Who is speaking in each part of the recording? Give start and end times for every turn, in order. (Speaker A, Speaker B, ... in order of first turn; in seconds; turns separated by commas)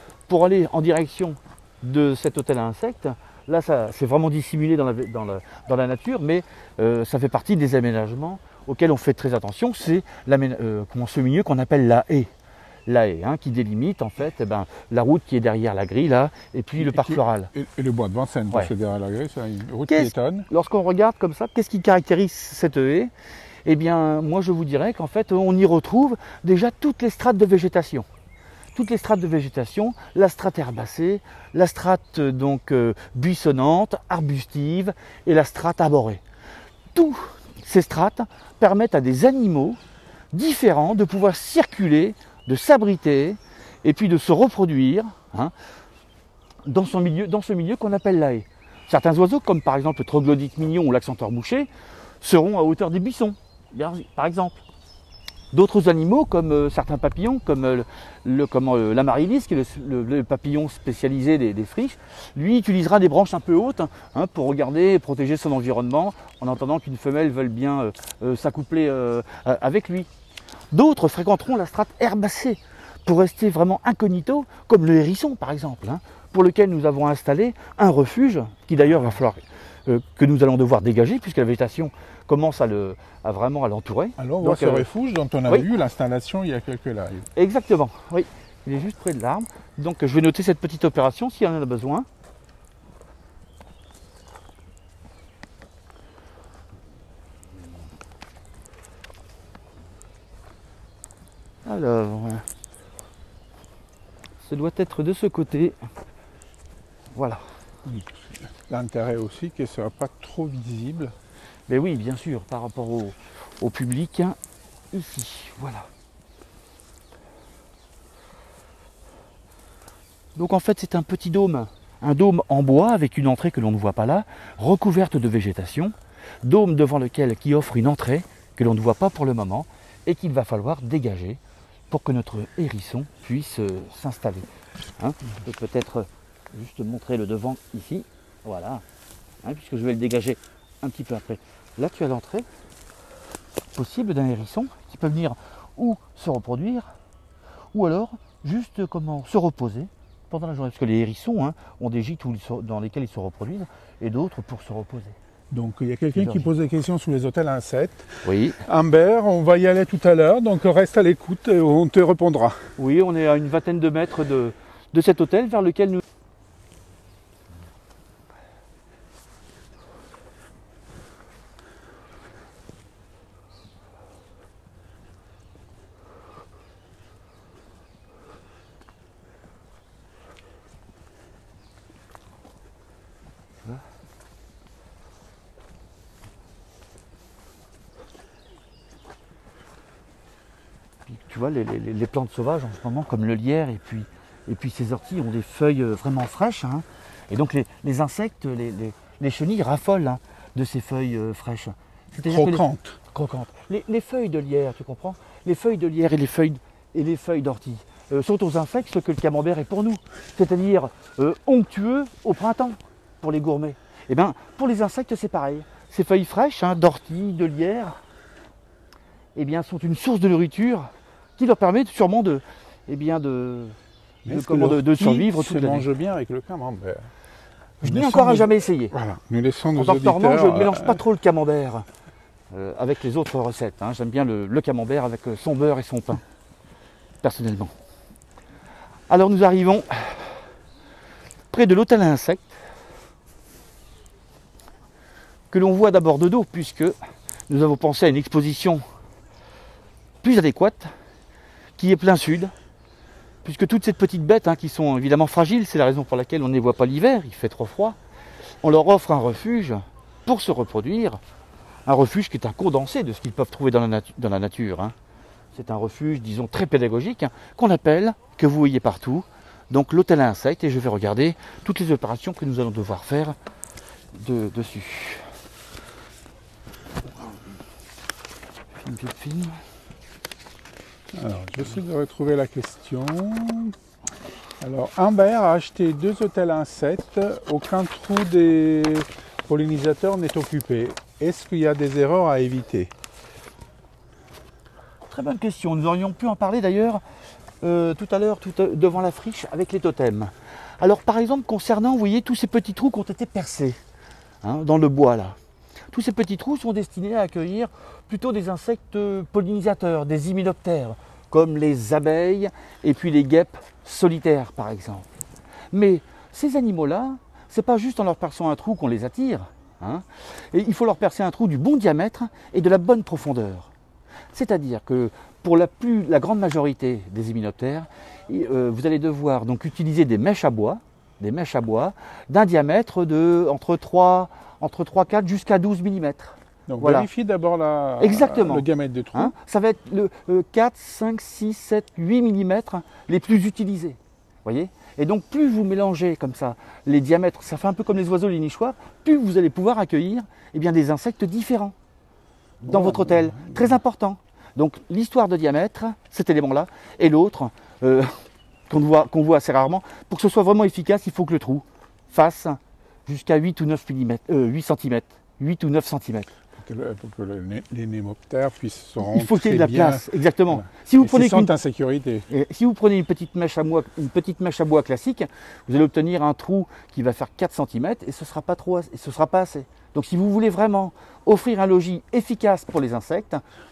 Speaker A: 0.3-12.3, Speaker A: 12.9-17.5, Speaker B: 16.8-20.5, Speaker A: 19.9-23.1, Speaker A: 23.6-28.1, Speaker A: 28.7-36.2, Speaker A: 36.9-39.8, Speaker A: 40.3-45.5, Speaker A: 46.6-51.7, Speaker A: 52.2-54.6, Speaker A: 55.5-70.1, Speaker A: 70.7-84.8, Speaker B: 84.2-87.3, Speaker A: 87.3-92.1, Speaker A: 101.7-102.5, Speaker A: 104.4-105.8, Speaker A: 107.1-107.4, Speaker B: 107.8-111.1, Speaker A: 111.7-114.4, Speaker A: 114.9-115.9, Speaker A: 120.3-134.5, Speaker A: 135.0-138.8, Speaker A: 139.4-142.4, Speaker A: 143.7-146.9, Speaker A: 147.7-155.2, Speaker B: 155.5-162.7, Speaker A: 156.1-156.5, Speaker A: 158.2-158.6, Speaker A: 162.8-166.0, Speaker A: 191.1-217.9, Speaker B: 202.2-203.0, Speaker A: 219.3-223.8, Speaker B: 224.2-227.1, Speaker A: 224.3-225.9, Speaker A: 227.8-228.9, Speaker B: 227.8-231.0, Speaker A: 229.7-231.8, Speaker A: 232.5-236.2, Speaker A: 237.2-237.7, Speaker A: 239.1-240.4, Speaker A: 241.5-242.6, Speaker A: 245.5-246.9, Speaker A: 247.5-248.8, Speaker A: 250.2-250.9, Speaker A: 251.8-252.5, Speaker A: 253.4-258.0, Speaker A: 258.6-261.2, Speaker A: 261.9-264.9, Speaker A: 265.5-273.4, Speaker A: 274.1-275.2, Speaker A: 278.8-279.6, Speaker B: 281.1-283.7, Speaker B: 284.6-292.9, Speaker A: 295.1-297.0, Speaker A: 297.6-303.8, Speaker A: 304.4-305.4, Speaker A: 305.9-315.1, Speaker A: 315.7-323.7, Speaker A: 324.3-337.1, Speaker B: 336.7-339.3, Speaker A: 338.0-351.7, Speaker A: 352.6-358.2, Speaker B: 352.6-353.8, Speaker A: 358.7-366.3, Speaker B: 366.6-372.3, Speaker A: 369.0-371.5, Speaker A: 372.3-383.4